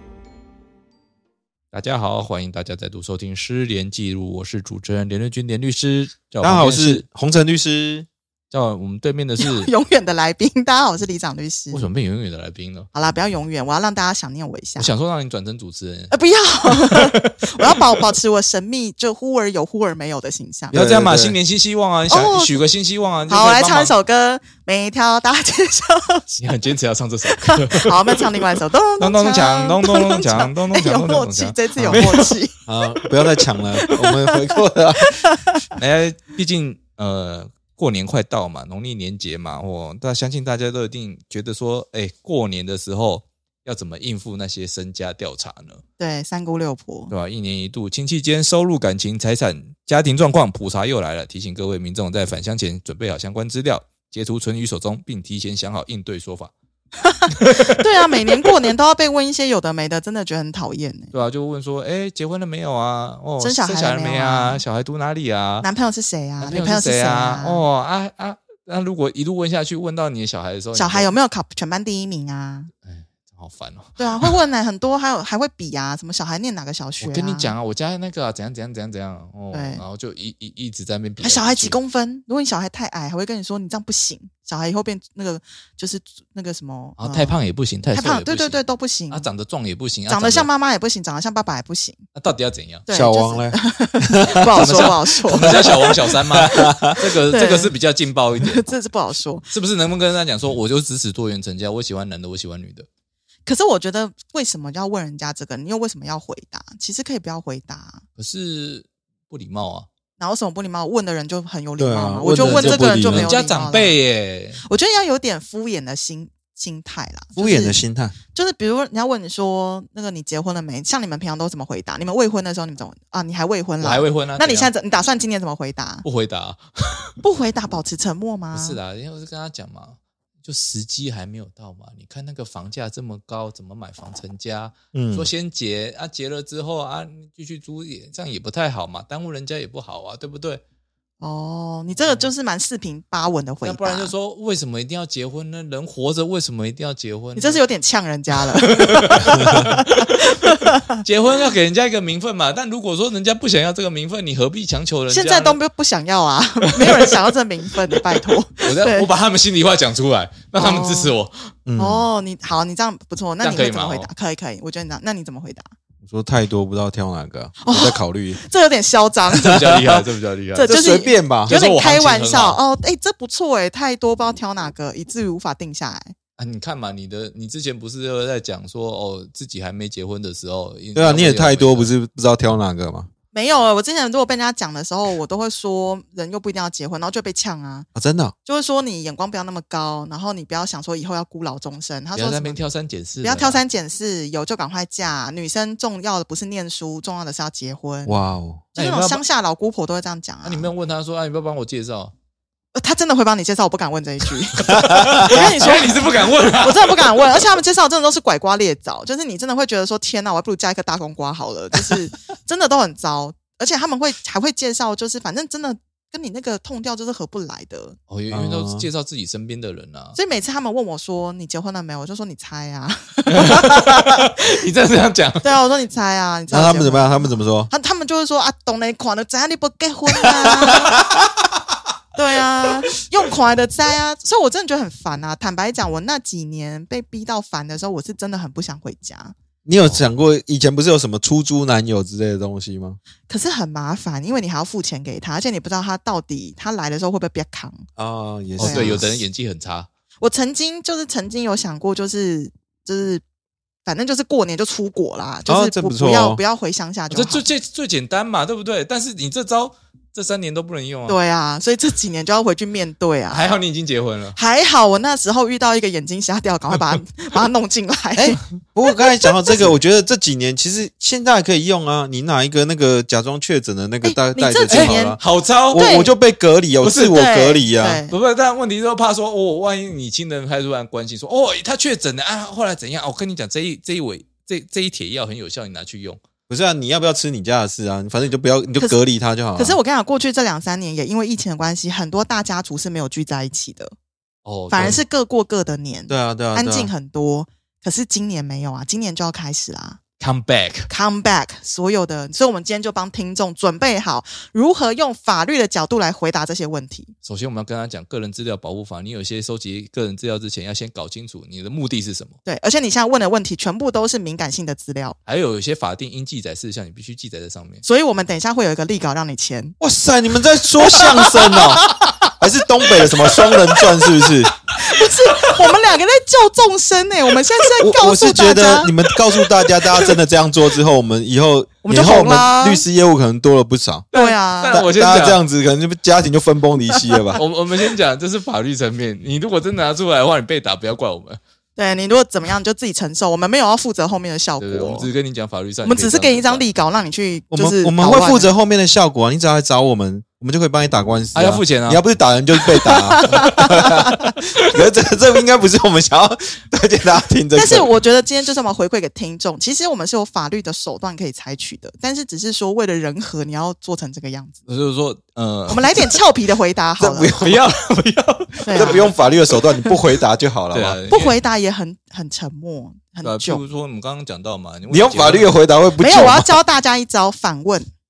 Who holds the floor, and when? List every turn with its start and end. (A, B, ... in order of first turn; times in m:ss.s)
0:01.7-0:07.0 A
0:06.4-0:08.1 B
0:08.5-0:09.7 A
0:09.4-0:11.9 C
0:11.7-0:12.9 A
0:12.9-0:14.9 C
0:14.8-0:16.1 A
0:16.1-0:20.8 C
0:16.6-0:17.7 A
0:20.7-0:21.4 B
0:20.7-0:23.9 A
0:22.1-0:22.6 C
0:23.3-0:26.4 C
0:26.4-0:28.4 A
0:27.3-0:32.5 C
0:29.0-0:32.3 A
0:31.8-0:32.1 B
0:32.7-0:35.2 B
0:33.7-0:34.4 C
0:35.0-0:35.6 C
0:35.8-0:45.8 A
0:46.0-0:47.1 C
0:47.1-0:56.5 A
0:57.0-1:01.1 C
0:57.3-0:57.8 A
1:01.1-1:05.7 A
1:03.4-1:04.6 C
1:05.6-1:07.6 C
1:06.4-1:11.1 A
1:10.7-1:12.7 C
1:12.8-1:14.3 A
1:14.0-1:17.5 C
1:17.0-1:21.8 A
1:19.5-1:19.8 C
1:21.2-1:27.4 C
1:27.0-1:30.5 A
1:27.9-1:29.3 C
1:30.1-1:32.0 C
1:32.1-1:32.9 A
1:32.9-1:36.0 C
1:32.9-1:35.0 B
1:34.6-1:38.7 A
1:35.5-1:37.0 B
1:37.3-1:37.8 C
1:38.4-1:39.5 C
1:39.5-1:42.9 A
1:43.4-1:48.0 C
1:48.2-1:49.9 A
1:50.2-1:54.0 C
1:51.8-1:53.3 B
1:52.4-1:54.6 A
1:54.6-2:06.0 C
1:57.4-1:58.2 B
2:03.8-2:04.7 A
2:06.0-2:07.1 A
2:07.2-2:08.8 C
2:08.5-2:20.6 A
2:14.9-2:15.3 B
2:21.2-2:24.1 C
2:21.9-2:22.3 A
2:23.6-2:27.6 A
2:27.4-2:31.0 C
2:28.6-2:30.3 A
2:31.0-2:35.6 A
2:35.1-2:39.1 C
2:36.7-2:37.2 A
2:38.6-2:41.5 A
2:40.6-2:41.2 C
2:41.6-2:42.1 B
2:41.8-2:45.7 C
2:43.4-2:44.1 A
2:46.0-2:48.4 B
2:47.6-2:49.7 C
2:49.4-2:50.8 A
2:50.5-2:56.1 C
2:50.6-2:51.5 B
2:51.4-2:52.6 A
2:56.4-3:01.9 A
3:00.9-3:03.1 B
3:03.3-3:07.9 C
3:07.9-3:08.3 B
3:08.4-3:12.6 C
3:12.1-3:13.6 A
3:13.2-3:18.2 C
3:18.0-3:18.7 B
3:18.7-3:19.2 A
3:18.8-3:20.7 C
3:20.4-3:22.1 A
3:22.8-3:38.0 C
3:24.6-3:27.1 A
3:24.7-3:25.4 B
3:38.1-3:40.2 A
3:38.3-3:38.9 B
3:40.2-3:44.2 C
3:43.3-3:45.4 A
3:45.4-3:50.9 C
3:46.5-3:47.7 B
3:50.2-3:51.0 B
3:50.9-3:51.2 A
3:52.1-3:59.3 C
3:59.6-4:03.0 B
4:03.3-4:07.9 C
4:08.0-4:09.1 B
4:08.6-4:09.1 C
4:08.6-4:09.9 A
4:10.2-4:13.2 C
4:13.8-4:17.4 C
4:15.4-4:16.4 B
4:17.1-4:21.2 A
4:21.1-4:23.5 C
4:23.3-4:24.4 A
4:24.3-4:29.7 C
4:28.1-4:38.0 B
4:34.0-4:35.2 C
4:34.7-4:35.8 A
4:35.7-4:36.1 C
4:36.8-4:37.2 A
4:37.0-4:38.1 C
4:38.1-4:46.2 A
4:46.5-4:49.8 B
4:49.5-4:53.9 C
4:54.4-4:55.0 A
4:54.7-5:00.0 C
4:56.1-4:56.9 B
5:00.2-5:00.9 A
5:00.9-5:07.1 C
5:07.2-5:12.3 A
5:12.4-5:15.2 C
5:15.2-5:17.8 A
5:17.8-5:19.8 C
5:19.8-5:24.5 B
5:20.8-5:22.3 C
5:23.1-5:24.1 C
5:24.7-5:29.0 C
5:27.8-5:34.1 B
5:29.8-5:30.2 C
5:31.8-5:32.8 C
5:34.1-5:35.4 A
5:34.1-5:34.8 C
5:34.7-5:37.4 B
5:37.4-5:41.4 A
5:41.8-5:45.1 C
5:44.6-5:46.6 A
5:45.8-5:48.5 C
5:47.5-5:57.9 B
5:51.3-5:52.0 A
5:52.6-5:54.3 C
5:57.5-6:04.6 C
6:04.7-6:06.2 A
6:05.7-6:07.5 C
6:07.0-6:07.6 B
6:07.4-6:09.1 A
6:08.6-6:09.1 C
6:08.7-6:11.0 B
6:10.7-6:11.4 A
6:11.1-6:13.6 C
6:13.2-6:15.5 A
6:14.9-6:16.6 B
6:16.0-6:17.9 C